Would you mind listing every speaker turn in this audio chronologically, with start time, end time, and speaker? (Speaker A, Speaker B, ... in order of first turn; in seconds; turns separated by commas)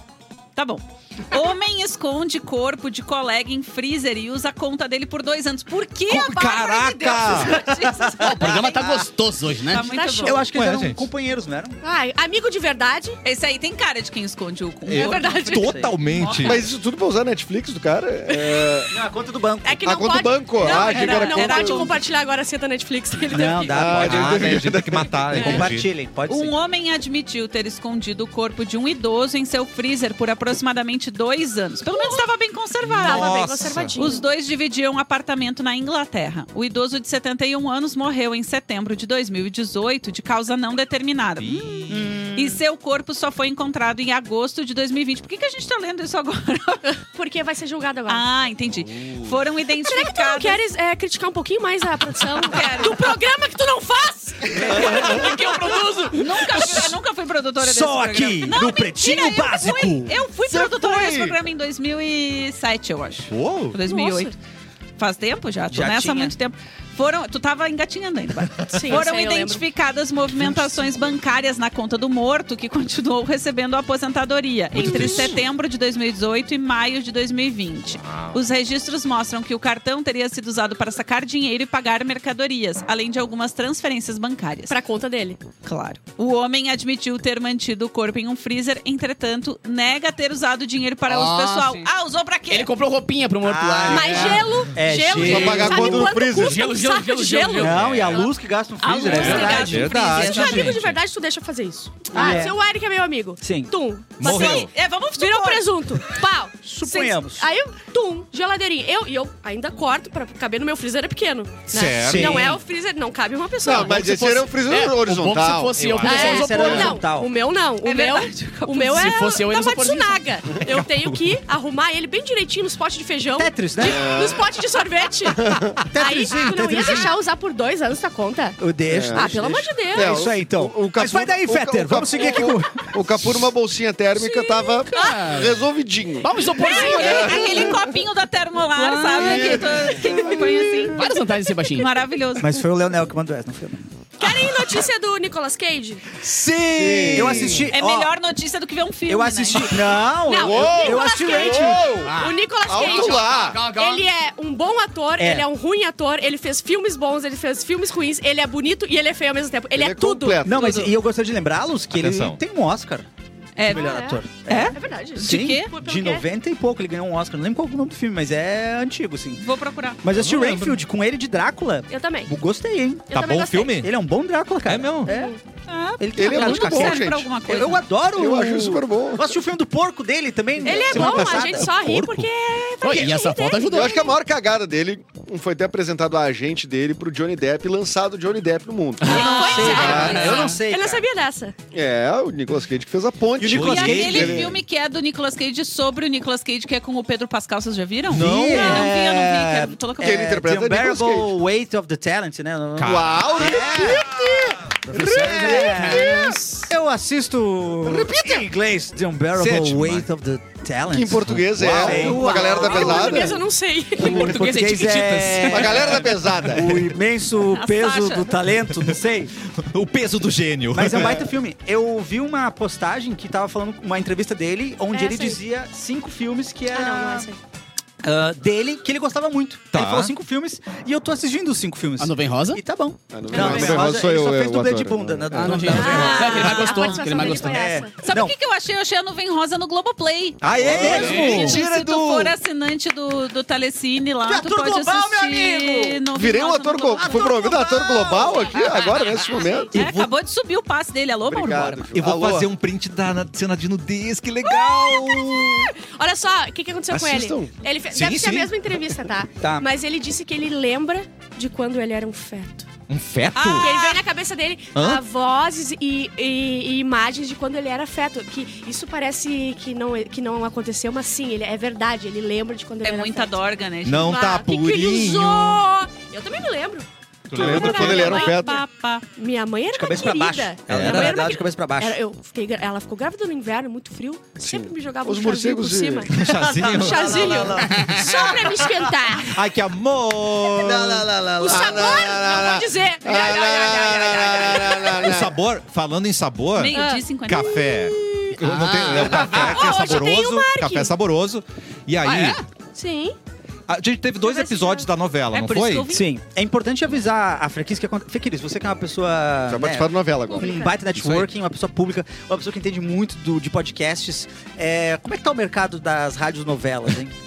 Speaker A: 0.6-8.9, Speaker B: 6.1-7.7, Speaker C: 8.2-9.9, Speaker A: 9.7-10.4, Speaker D: 9.7-10.5, Speaker E: 10.2-11.8, Speaker B: 10.5-11.1, Speaker D: 11.8-13.2, Speaker A: 13.2-16.7, Speaker B: 14.9-16.7, Speaker D: 14.9-15.8, Speaker E: 15.5-15.9, Speaker F: 16.4-18.9, Speaker D: 18.3-18.8, Speaker E: 18.9-19.8, Speaker D: 19.6-24.0, Speaker F: 19.9-21.9, Speaker A: 20.6-22.0, Speaker E: 23.3-24.8, Speaker F: 23.7-25.4, Speaker B: 23.9-25.9, Speaker E: 25.3-26.5, Speaker A: 25.4-25.7, Speaker A: 26.3-46.9, Speaker D: 31.9-32.3, Speaker B: 32.8-34.0, Speaker D: 33.0-34.2, Speaker B: 41.4-42.0, Speaker E: 41.9-42.6, Speaker D: 47.1-48.2, Speaker A: 48.1-50.6, Speaker B: 48.8-49.4, Speaker D: 49.9-56.9, Speaker A: 52.4-53.1, Speaker C: 54.6-56.8, Speaker A: 56.1-64.4, Speaker E: 57.6-61.3, Speaker B: 63.3-63.8, Speaker D: 63.9-64.3, Speaker A: 65.0-84.8, Speaker E: 65.7-66.3, Speaker D: 68.7-69.6, Speaker B: 70.3-70.8, Speaker B: 74.7-75.4, Speaker D: 74.8-75.3, Speaker B: 77.9-78.4, Speaker D: 84.7-85.4, Speaker A: 85.6-92.7, Speaker C: 91.1-91.9, Speaker C: 92.5-94.6, Speaker E: 93.4-96.0, Speaker D: 93.9-98.3, Speaker F: 95.1-96.7, Speaker C: 95.2-98.3, Speaker E: 97.6-100.7, Speaker A: 98.8-100.8, Speaker D: 99.1-114.2, Speaker B: 99.1-101.0, Speaker C: 99.2-99.5, Speaker E: 102.1-102.6, Speaker E: 103.4-103.7, Speaker B: 104.2-104.7, Speaker A: 104.2-105.7, Speaker E: 106.6-107.5, Speaker B: 111.7-112.5, Speaker E: 112.0-112.6, Speaker F: 113.6-115.8, Speaker C: 113.8-117.0, Speaker B: 115.8-116.3, Speaker D: 116.0-128.6, Speaker E: 116.1-117.3, Speaker A: 117.8-119.2, Speaker C: 118.7-120.3, Speaker B: 120.6-121.4, Speaker E: 123.3-124.3, Speaker F: 123.8-124.5, Speaker F: 125.3-125.8, Speaker E: 125.9-127.2, Speaker E: 128.6-132.9, Speaker F: 128.9-129.4, Speaker D: 129.1-130.2, Speaker F: 129.9-137.1, Speaker D: 134.2-135.2, Speaker C: 134.9-135.6, Speaker C: 136.2-137.8, Speaker D: 136.6-137.6, Speaker A: 136.6-141.1, Speaker C: 138.7-139.7, Speaker F: 139.2-140.0, Speaker E: 140.5-140.9, Speaker C: 140.9-141.9, Speaker A: 141.7-142.5, Speaker E: 142.4-143.8, Speaker D: 144.2-146.2, Speaker E: 146.2-148.1, Speaker F: 146.7-147.7, Speaker A: 147.7-149.8, Speaker E: 149.1-152.0, Speaker D: 150.3-160.5, Speaker F: 150.4-152.1, Speaker C: 152.0-154.1, Speaker F: 152.7-153.6, Speaker E: 155.2-155.5, Speaker F: 159.7-160.9, Speaker E: 160.4-163.1, Speaker B: 161.9-162.4, Speaker A: 163.6-165.7, Speaker E: 163.6-169.4, Speaker D: 163.7-164.2, Speaker D: 164.7-166.3, Speaker A: 169.4-170.0, Speaker E: 170.0-175.4, Speaker B: 170.1-170.8, Speaker D: 171.9-172.3, Speaker D: 173.1-173.8, Speaker B: 173.1-173.9, Speaker B: 174.7-175.1, Speaker D: 175.1-175.4, Speaker A: 175.7-177.8, Speaker E: 176.0-181.8, Speaker F: 176.2-177.3, Speaker F: 178.2-179.4, Speaker D: 180.6-184.2, Speaker B: 181.0-182.3, Speaker C: 182.8-184.1, Speaker F: 183.7-190.2, Speaker A: 189.1-190.4, Speaker E: 189.1-191.1, Speaker D: 189.1-191.6, Speaker C: 189.8-190.6, Speaker F: 191.7-194.6, Speaker E: 193.4-194.4, Speaker B: 193.5-194.4, Speaker A: 193.5-200.3, Speaker B: 198.1-198.9, Speaker E: 198.1-204.1, Speaker F: 200.0-201.3, Speaker B: 202.8-203.6, Speaker F: 202.8-206.3, Speaker E: 204.9-213.3, Speaker C: 204.9-206.7, Speaker F: 207.9-208.4, Speaker B: 209.3-210.1, Speaker F: 210.9-213.4, Speaker B: 211.4-212.3, Speaker D: 212.1-214.3, Speaker C: 214.0-215.9, Speaker E: 214.0-219.3, Speaker F: 215.5-216.9, Speaker A: 217.5-218.3, Speaker B: 219.5-221.2, Speaker E: 220.7-227.3, Speaker D: 224.9-225.4, Speaker D: 226.7-227.4, Speaker E: 228.0-238.3, Speaker B: 229.7-230.1, Speaker C: 232.0-232.6, Speaker F: 233.1-235.6, Speaker D: 233.3-233.7, Speaker C: 235.3-237.7, Speaker D: 235.7-238.1, Speaker A: 236.2-237.0, Speaker A: 238.0-247.4, Speaker B: 240.4-242.3, Speaker E: 240.4-241.7, Speaker F: 240.6-241.3, Speaker C: 240.8-241.5, Speaker E: 244.2-246.0, Speaker F: 246.1-249.8, Speaker E: 247.0-248.7, Speaker D: 249.2-249.8, Speaker B: 249.7-250.1, Speaker A: 249.7-251.9, Speaker F: 251.3-252.5, Speaker B: 251.9-255.7, Speaker D: 254.5-262.7, Speaker F: 256.9-257.5, Speaker B: 257.9-258.5, Speaker E: 259.4-259.7, Speaker B: 262.9-263.7, Speaker A: 263.3-264.0, Speaker D: 263.5-273.4, Speaker B: 264.7-265.0, Speaker A: 272.8-274.2, Speaker B: 273.9-275.6, Speaker D: 274.0-278.6, Speaker B: 277.3-278.2, Speaker F: 277.3-278.6, Speaker A: 277.6-279.1, Speaker D: 279.2-289.4, Speaker E: 279.7-282.0, Speaker B: 280.7-281.2, Speaker F: 284.4-286.1, Speaker B: 286.1-287.8, Speaker E: 286.2-288.7, Speaker C: 287.7-288.1, Speaker B: 289.3-291.1, Speaker D: 290.5-295.1, Speaker E: 290.6-291.6, Speaker F: 290.7-295.4, Speaker B: 295.0-302.4, Speaker A: 296.6-297.6, Speaker D: 296.7-297.9, Speaker C: 298.4-299.7, Speaker D: 299.2-300.9, Speaker C: 302.0-302.4, Speaker D: 302.7-303.2, Speaker B: 303.7-305.9, Speaker D: 304.2-304.9, Speaker A: 305.3-306.0, Speaker E: 305.9-317.1, Speaker F: 309.5-310.6, Speaker D: 310.3-310.8, Speaker B: 310.9-311.3